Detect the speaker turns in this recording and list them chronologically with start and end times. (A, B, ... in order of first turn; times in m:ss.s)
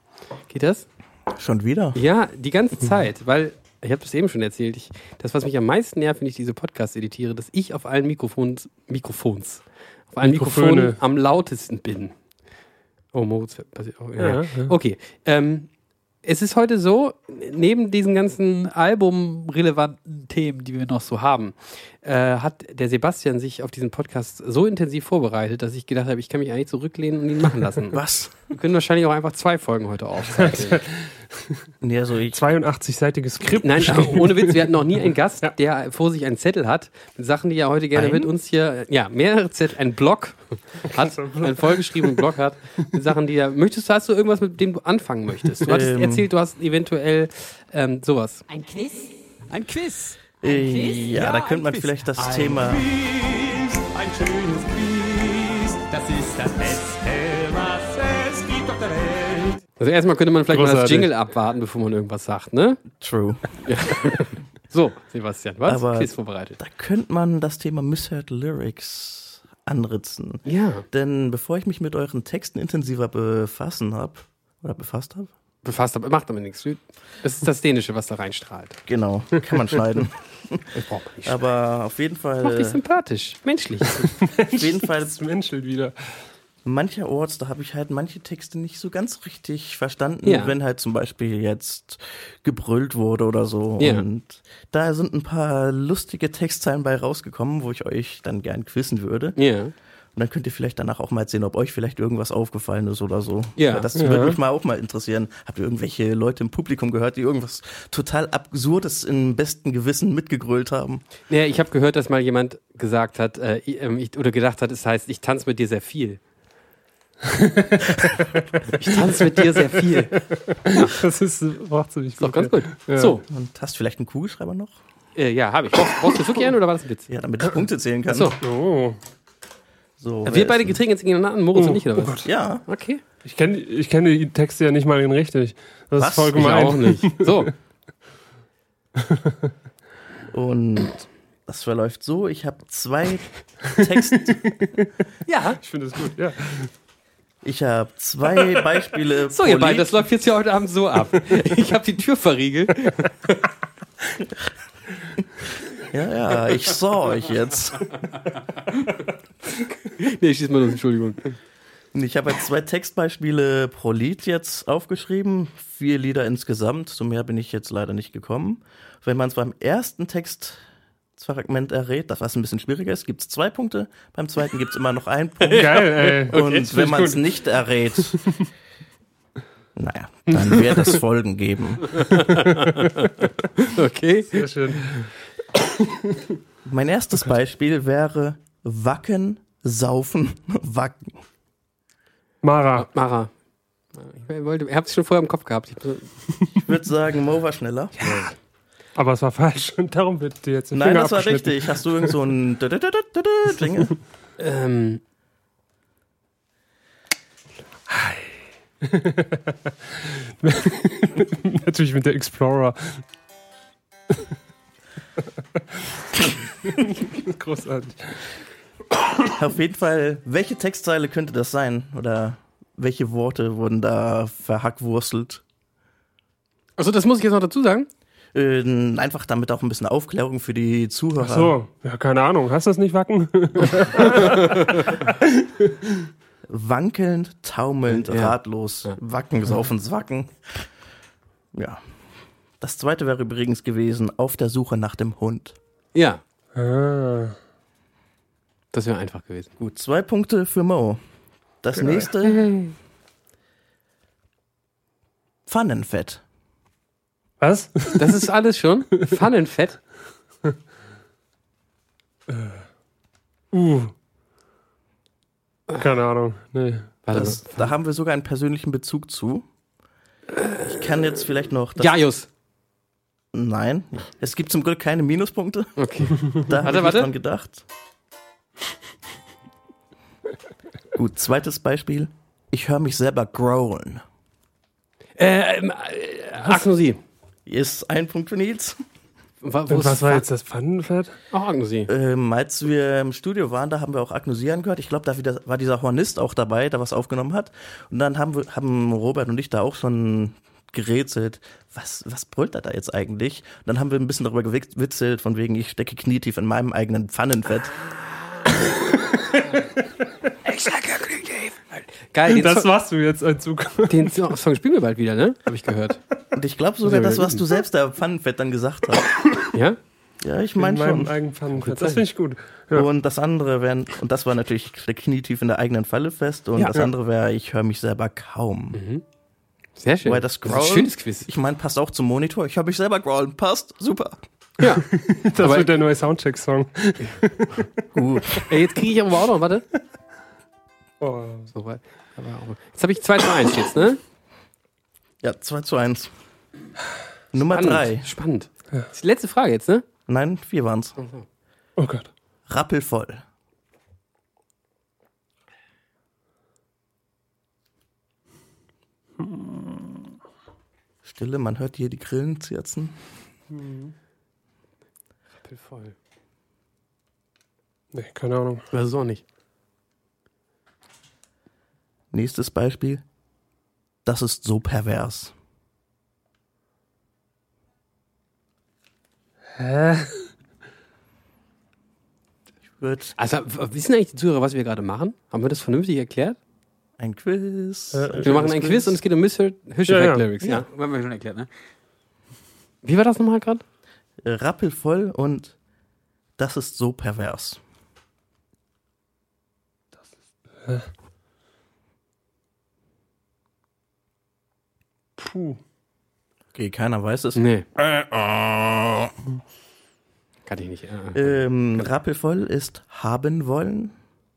0:00.5-0:00.8 A
0:01.3-0:02.0 B
0:01.9-0:12.1 A
0:10.2-0:11.0 C
0:13.1-0:15.7 A
0:14.2-0:14.7 C
0:16.2-0:28.0 A
0:27.9-0:28.6 B
0:28.5-0:30.8 A
0:30.5-0:31.6 C
0:31.8-0:32.4 B
0:32.3-0:34.7 C
0:33.6-0:48.4 A
0:37.9-0:38.3 B
0:40.9-0:42.3 C
0:45.6-0:46.3 B
0:48.5-0:59.6 D
0:50.4-0:52.8 B
0:59.8-1:02.8 A
1:00.5-1:01.1 C
1:02.9-1:03.6 B
1:03.6-1:06.6 A
1:05.6-1:15.3 B
1:10.4-1:10.8 A
1:15.6-1:18.8 A
1:18.9-1:22.8 B
1:20.7-1:21.4 A
1:22.4-1:24.1 A
1:24.2-1:25.9 C
1:24.5-1:25.2 B
1:26.6-1:39.4 B
1:30.2-1:30.6 A
1:33.8-1:34.0 A
1:39.4-1:39.7 A
1:40.1-1:51.0 B
1:43.6-1:43.9 A
1:44.0-1:44.4 C
1:51.3-1:56.2 A
1:57.3-2:03.2 C
1:58.7-2:00.2 A
2:00.7-2:01.0 A
2:02.2-2:03.2 A
2:03.3-2:04.8 B
2:05.2-2:07.1 A
2:07.1-2:08.4 B
2:08.1-2:08.4 A
2:08.4-2:09.0 C
2:10.0-2:10.8 B
2:10.2-2:13.0 A
2:11.5-2:12.3 C
2:12.2-2:12.6 B
2:13.2-2:17.5 C
2:16.0-2:16.6 B
2:16.3-2:17.5 A
2:19.1-2:19.3 C
2:20.3-2:24.6 B
2:25.3-2:25.6 A
2:25.6-2:26.7 C
2:27.4-2:30.0 B
2:29.3-2:33.4 A
2:35.8-2:37.9 B
2:39.6-2:41.3 A
2:41.9-2:50.6 B
2:51.2-2:58.3 B
2:55.4-2:56.6 A
2:55.5-2:57.2 C
2:58.0-2:58.4 C
2:59.8-3:02.1 B
3:00.3-3:00.9 A
3:02.0-3:05.1 A
3:04.3-3:05.1 C
3:05.8-3:06.2 C
3:06.6-3:11.1 B
3:12.4-3:12.9 C
3:12.7-3:13.3 A
3:13.9-3:16.1 A
3:16.6-3:18.3 B
3:19.0-3:22.1 C
3:20.7-3:23.9 B
3:24.4-3:25.0 A
3:27.9-3:29.5 C
3:30.4-3:33.0 C
3:36.2-3:38.3 C
3:39.3-3:45.4 B
3:46.8-3:47.9 A
3:48.3-3:51.6 B
3:51.2-3:55.7 C
3:54.0-3:54.8 A
3:56.5-4:00.7 B
3:57.9-3:59.0 A
4:01.5-4:01.8 B
4:02.6-4:05.6 B
4:05.9-4:06.2 A
4:06.5-4:07.4 C
4:08.7-4:09.5 A
4:09.6-4:11.0 B
4:11.6-4:12.5 B
4:11.8-4:12.1 C
4:12.2-4:12.7 A
4:15.5-4:16.2 B
4:17.4-4:18.2 C
4:18.0-4:19.8 A
4:22.3-4:22.6 C
4:23.5-4:23.9 C
4:25.8-4:26.9 C
4:27.0-4:27.7 A
4:27.1-4:29.4 B
4:30.3-4:30.9 A
4:30.6-4:31.9 B
4:31.8-4:32.3 A
4:33.3-4:37.6 B
4:35.8-4:37.1 A
4:40.9-4:44.0 B
4:45.2-4:47.0 A
4:47.4-4:48.8 B
4:49.4-4:50.2 A
4:49.7-4:51.2 C
4:51.3-4:51.9 A
4:51.9-5:07.8 B
5:10.4-5:12.7 A
5:12.3-5:14.3 C
5:13.9-5:16.0 A
5:16.3-5:19.1 B
5:16.8-5:17.4 A
5:19.5-5:19.8 A
5:20.2-5:21.2 B
5:20.6-5:22.9 C
5:21.6-5:22.0 A
5:22.7-5:28.8 B
5:28.7-5:29.0 A
5:29.8-5:31.3 A
5:30.0-5:34.2 B
5:34.6-5:34.8 A
5:34.8-5:37.7 C
5:35.4-5:35.7 A
5:37.9-5:38.5 B
5:38.5-5:39.6 A
5:41.0-5:41.5 C
5:41.5-5:44.0 A
5:45.2-5:46.1 B
5:47.3-5:48.1 B
5:47.4-5:49.8 A
5:50.1-5:51.0 B
5:51.0-5:51.2 A
5:51.8-5:52.1 C
5:52.5-5:53.2 B
5:59.2-5:59.6 C
6:01.0-6:02.9 B
6:03.5-6:03.9 C
6:05.4-6:06.0 A
6:07.9-6:08.6 C
6:08.7-6:09.2 A
6:12.1-6:13.0 B
6:14.0-6:15.3 B
6:19.6-6:20.3 C
6:22.8-6:23.1 B
6:23.2-6:26.4 A
6:27.0-6:29.0 B
6:27.9-6:28.4 C
6:28.2-6:31.5 A
6:29.9-6:30.2 C
6:32.8-6:33.6 A
6:34.2-6:35.5 B
6:36.4-6:37.6 B
6:45.2-6:45.6 C
6:46.5-6:49.1 B
6:47.4-6:47.6 A
6:50.5-6:51.9 A
6:51.1-6:53.9 B